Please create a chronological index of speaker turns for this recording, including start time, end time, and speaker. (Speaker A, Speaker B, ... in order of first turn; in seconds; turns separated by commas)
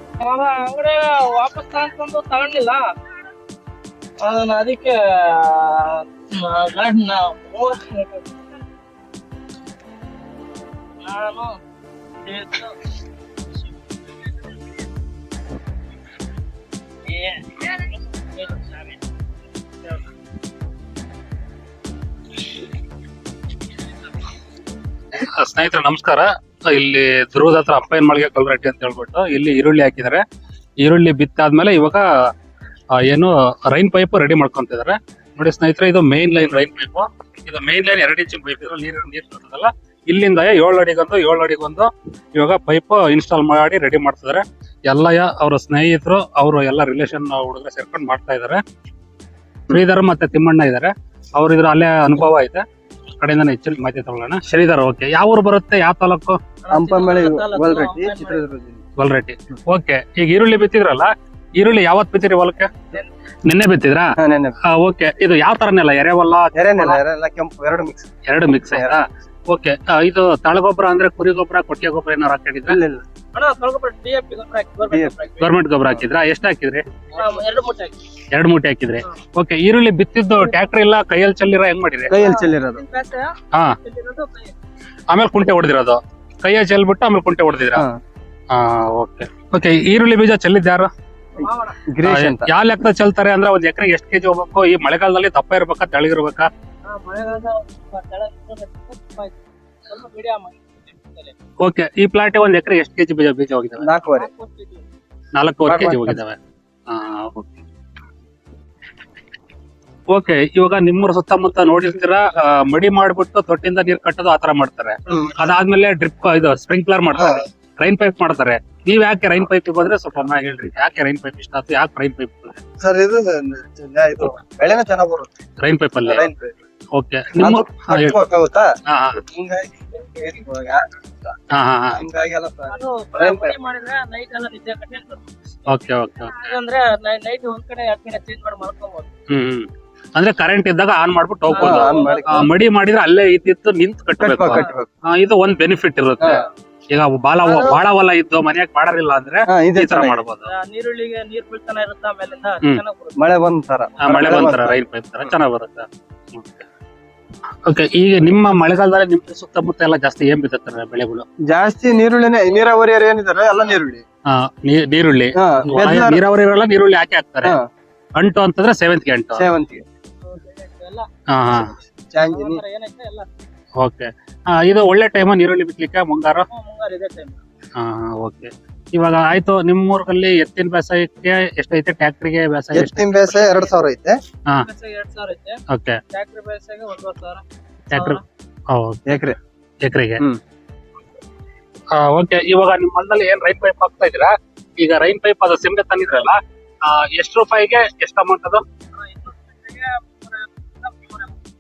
Speaker A: 0.2-2.9, Speaker A: 4.2-8.5, Speaker A: 11.0-11.6, Speaker A: 12.2-12.8, Speaker A: 17.1-19.0, Speaker B: 25.1-30.2, Speaker B: 30.8-32.3, Speaker B: 32.9-48.6, Speaker B: 49.7-52.6, Speaker B: 53.2-56.4, Speaker A: 56.6-58.4, Speaker C: 56.7-58.8, Speaker B: 59.0-62.8, Speaker B: 63.5-67.0, Speaker C: 64.2-64.5, Speaker C: 66.5-68.1, Speaker B: 68.3-72.8, Speaker C: 72.7-73.0, Speaker A: 73.3-75.5, Speaker C: 74.9-75.1, Speaker B: 75.4-76.9, Speaker A: 77.1-78.0, Speaker B: 78.3-82.2, Speaker C: 82.1-82.8, Speaker A: 82.1-84.5, Speaker B: 85.1-87.8, Speaker B: 88.5-90.9, Speaker A: 91.4-91.8, Speaker C: 91.9-92.5, Speaker B: 92.0-96.5, Speaker A: 96.9-101.3, Speaker B: 101.6-103.8, Speaker C: 103.8-104.3, Speaker A: 104.1-104.8, Speaker B: 105.3-106.4, Speaker C: 105.6-106.2, Speaker B: 106.9-107.6, Speaker B: 110.1-122.6, Speaker C: 122.8-125.3, Speaker B: 125.6-126.3, Speaker C: 126.0-126.5, Speaker B: 126.9-128.2, Speaker C: 127.4-128.8, Speaker B: 128.9-129.2, Speaker C: 129.3-130.9, Speaker B: 131.5-132.0, Speaker C: 131.9-133.6, Speaker A: 132.7-139.1, Speaker B: 135.7-136.5, Speaker B: 139.3-150.5, Speaker A: 141.5-142.5, Speaker C: 141.6-142.5, Speaker C: 144.2-144.9, Speaker A: 147.4-147.8, Speaker C: 149.5-150.2, Speaker A: 150.4-153.2, Speaker C: 153.2-154.8, Speaker B: 154.0-156.7, Speaker B: 157.7-161.3, Speaker C: 161.4-164.0, Speaker B: 164.3-167.6, Speaker C: 165.3-166.2, Speaker B: 168.2-169.5, Speaker C: 169.4-169.8, Speaker A: 170.3-171.1, Speaker B: 171.3-171.8, Speaker C: 172.1-172.6, Speaker A: 172.3-173.3, Speaker B: 173.8-176.5, Speaker A: 176.5-177.4, Speaker B: 177.8-183.7, Speaker C: 182.7-184.2, Speaker A: 184.6-185.6, Speaker B: 185.7-186.0, Speaker A: 186.1-188.2, Speaker B: 187.9-188.2, Speaker B: 188.7-190.2, Speaker C: 189.1-189.4, Speaker B: 191.9-198.6, Speaker A: 199.0-201.3